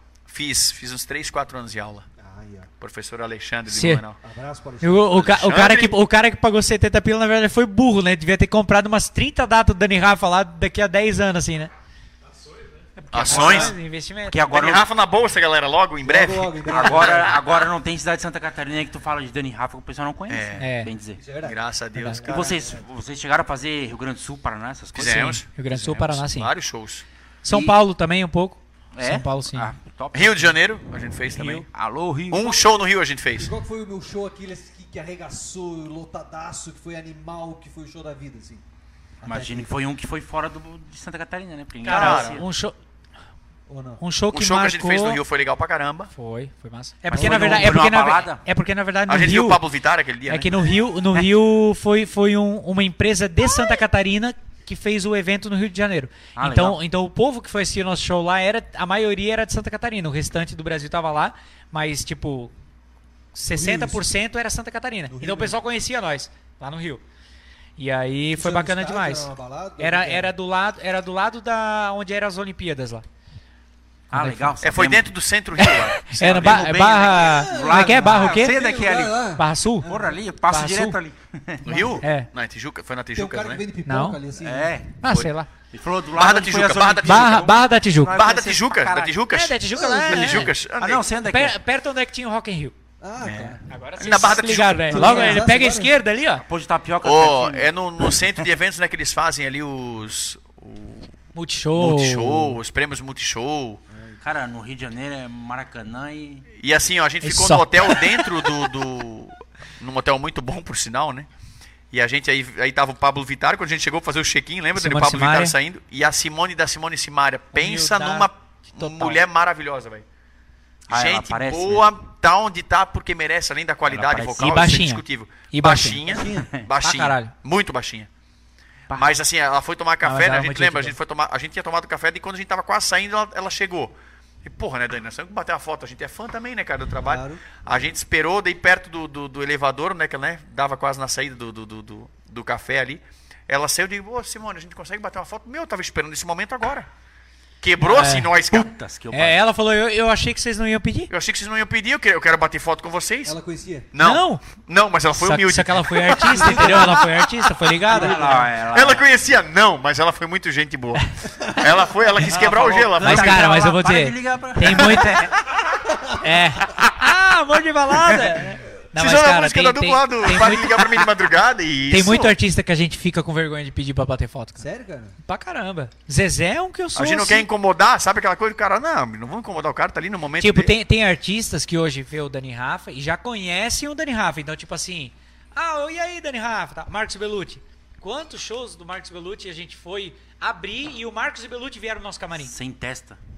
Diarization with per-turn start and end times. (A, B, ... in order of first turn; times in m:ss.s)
0:00.3-0:02.1 A
0:02.2-0:02.7 B
0:02.8-0:04.2 A
0:03.7-0:04.0 C
0:04.2-0:05.2 B
0:04.8-0:11.7 C
0:05.1-0:06.0 A
0:13.0-0:14.7 C
0:13.1-0:13.8 A
0:13.3-0:13.7 B
0:13.3-0:13.6 D
0:14.3-0:14.9 D
0:14.5-0:17.3 A
0:16.0-0:17.4 B
0:16.7-0:21.2 D
0:20.3-0:20.7 A
0:20.6-0:20.9 C
0:21.2-0:22.8 B
0:21.4-0:22.5 A
0:22.2-0:26.2 D
0:25.0-0:25.5 A
0:25.1-0:26.5 C
0:26.3-0:27.0 A
0:27.4-0:29.7 C
0:27.5-0:27.8 D
0:29.0-0:30.6 D
0:30.1-0:31.7 A
0:31.3-0:31.7 C
0:31.7-0:32.6 D
0:32.3-0:33.5 A
0:33.4-0:38.6 B
0:39.2-0:39.7 B
0:39.2-0:42.5 D
0:41.8-0:42.8 C
0:41.8-0:42.4 A
0:43.7-0:44.0 B
0:44.0-0:45.2 C
0:44.3-0:46.1 A
0:46.1-0:49.6 C
0:47.1-0:48.4 D
0:47.1-0:47.8 B
0:49.1-0:50.5 A
0:50.3-1:02.5 C
0:56.4-0:56.8 D
1:03.3-1:07.0 C
1:03.5-1:04.1 B
1:05.1-1:05.6 B
1:07.8-1:13.0 C
1:08.3-1:10.3 B
1:14.1-1:15.1 D
1:14.1-1:14.6 C
1:14.6-1:16.7 A
1:15.6-1:18.6 C
1:16.1-1:19.2 D
1:17.2-1:20.2 B
1:19.4-1:19.9 C
1:19.8-1:21.8 D
1:20.5-1:21.0 C
1:21.6-1:23.6 A
1:21.7-1:22.0 B
1:22.0-1:22.3 C
1:23.2-1:24.8 B
1:23.9-1:24.2 C
1:24.4-1:25.0 D
1:25.0-1:25.5 C
1:25.0-1:25.3 A
1:25.7-1:29.2 D
1:26.1-1:31.0 A
1:27.0-1:28.2 C
1:29.3-1:30.5 C
1:29.7-1:30.5 B
1:30.8-1:31.6 D
1:31.2-1:32.8 C
1:33.0-1:33.6 B
1:33.2-1:35.4 A
1:33.7-1:36.4 C
1:34.9-1:35.9 B
1:36.4-1:38.3 D
1:37.0-1:41.1 A
1:41.4-1:42.6 C
1:41.8-1:43.8 A
1:43.9-1:44.2 B
1:44.2-1:46.5 D
1:46.6-1:51.3 A
1:47.2-1:48.3 C
1:51.9-2:00.0 A
1:54.8-1:55.6 C
1:57.5-1:59.2 C
2:00.9-2:01.9 D
2:00.9-2:08.1 A
2:03.9-2:04.8 D
2:04.4-2:06.0 C
2:06.1-2:06.5 B
2:06.4-2:06.7 D
2:06.8-2:07.3 C
2:08.9-2:09.2 D
2:08.9-2:26.9 A
2:10.0-2:10.9 C
2:17.0-2:17.4 B
2:27.6-2:28.7 A
2:27.8-2:28.3 C
2:28.5-2:29.4 D
2:29.1-2:31.1 C
2:31.1-2:33.4 A
2:33.2-2:33.9 B
2:33.9-2:37.3 A
2:34.0-2:34.4 C
2:35.2-2:38.4 C
2:36.4-2:37.0 B
2:37.9-2:39.0 D
2:37.9-2:38.4 B
2:38.7-2:43.5 A
2:42.2-2:45.4 D
2:43.0-2:45.3 C
2:44.6-2:45.1 A
2:46.2-2:51.1 C
2:48.8-2:52.4 A
2:51.9-2:54.6 C
2:54.6-2:55.2 B
2:55.2-2:57.5 C
2:57.0-3:00.7 A
3:00.4-3:12.5 C
3:12.4-3:13.2 D